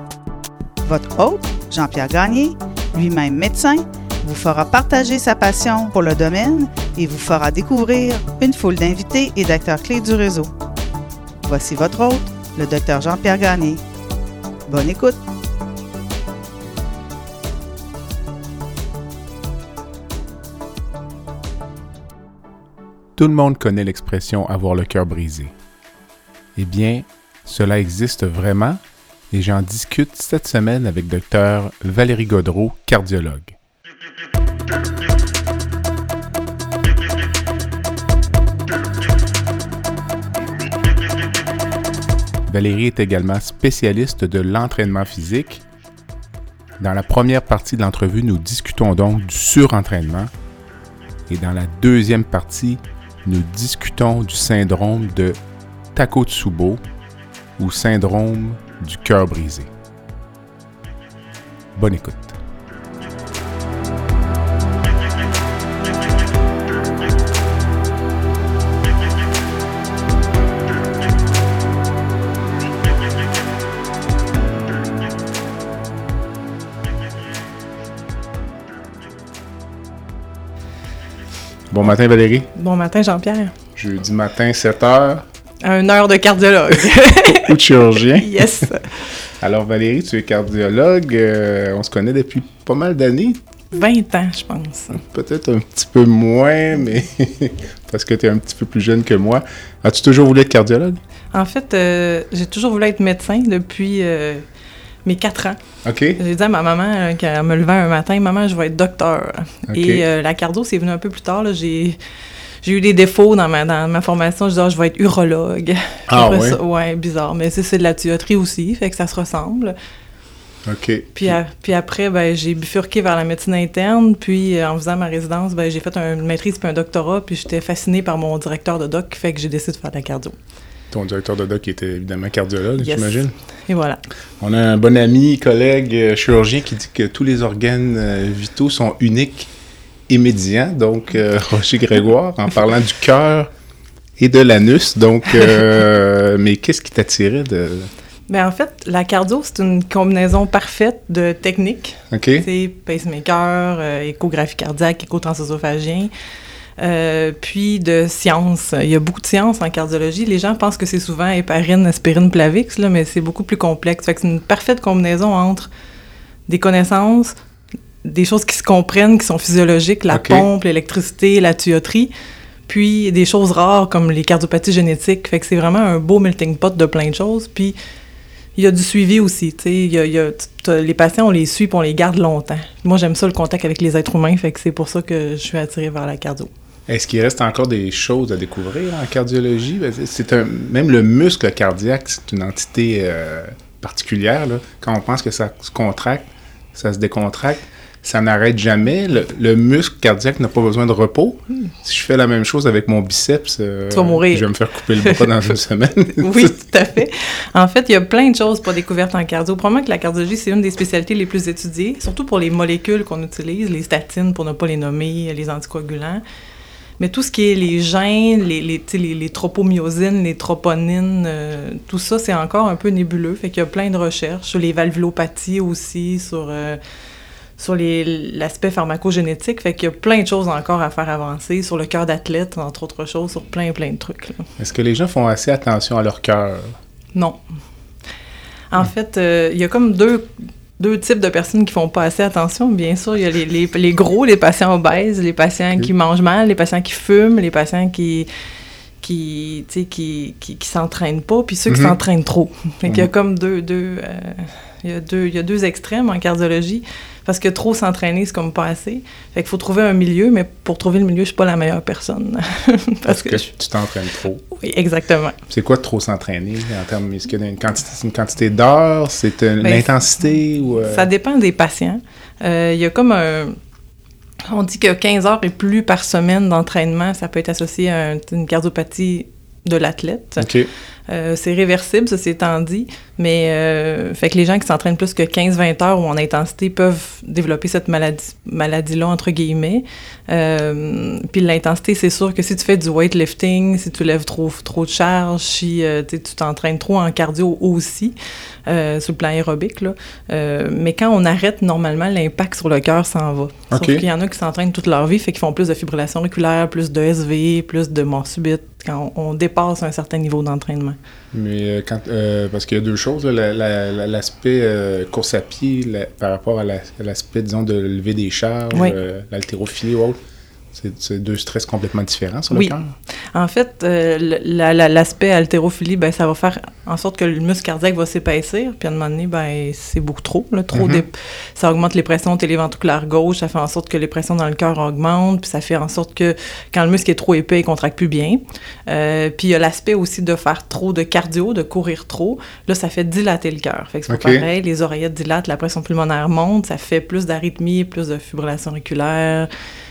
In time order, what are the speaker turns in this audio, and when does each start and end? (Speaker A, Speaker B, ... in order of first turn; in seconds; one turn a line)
Speaker A: 0.8-10.5
Speaker A: 11.4-13.8
Speaker A: 14.7-15.2
Speaker B: 23.1-25.5
Speaker B: 26.6-28.8
Speaker B: 29.3-33.5
Speaker B: 42.5-45.6
Speaker B: 46.8-50.3
Speaker B: 51.3-55.4
Speaker B: 55.9-56.8
Speaker B: 57.6-59.7
Speaker B: 61.7-62.4
Speaker B: 81.7-82.5
Speaker C: 82.5-83.5
Speaker B: 83.8-85.2
Speaker C: 85.6-89.1
Speaker B: 87.1-88.7
Speaker B: 89.4-93.4
Speaker C: 93.7-95.0
Speaker B: 94.9-101.0
Speaker C: 101.3-104.4
Speaker C: 105.0-105.6
Speaker B: 105.8-106.2
Speaker C: 106.2-112.0
Speaker B: 109.7-110.0
Speaker C: 112.6-119.7
Speaker B: 116.1-116.6
Speaker B: 120.6-121.4
Speaker C: 121.1-130.3
Speaker B: 130.9-133.3
Speaker C: 132.8-134.0
Speaker B: 134.4-139.5
Speaker B: 140.1-143.5
Speaker B: 144.2-147.9
Speaker C: 148.3-156.1
Speaker B: 152.1-152.5
Speaker C: 156.8-165.7
Speaker C: 166.5-167.3
Speaker C: 168.0-172.1
Speaker B: 170.1-170.5
Speaker C: 172.7-177.8
Speaker C: 178.6-186.5
Speaker B: 186.9-206.5
Speaker C: 203.9-205.3
Speaker C: 206.1-216.2
Speaker C: 217.0-226.8
Speaker C: 227.6-234.4
Speaker B: 234.6-236.7
Speaker C: 238.7-240.3
Speaker C: 240.8-248.3
Speaker C: 249.0-263.5
Speaker B: 251.7-251.9
Speaker B: 263.1-264.4
Speaker C: 264.5-265.4
Speaker B: 265.5-271.1
Speaker C: 269.6-269.9
Speaker C: 270.8-273.6
Speaker C: 274.5-280.5
Speaker B: 280.4-280.7
Speaker C: 281.1-298.1
Speaker C: 298.6-311.0
Speaker B: 303.7-304.0
Speaker B: 311.3-320.2
Speaker B: 320.7-322.9
Speaker C: 323.3-349.5
Speaker B: 330.7-331.0
Speaker B: 344.1-344.4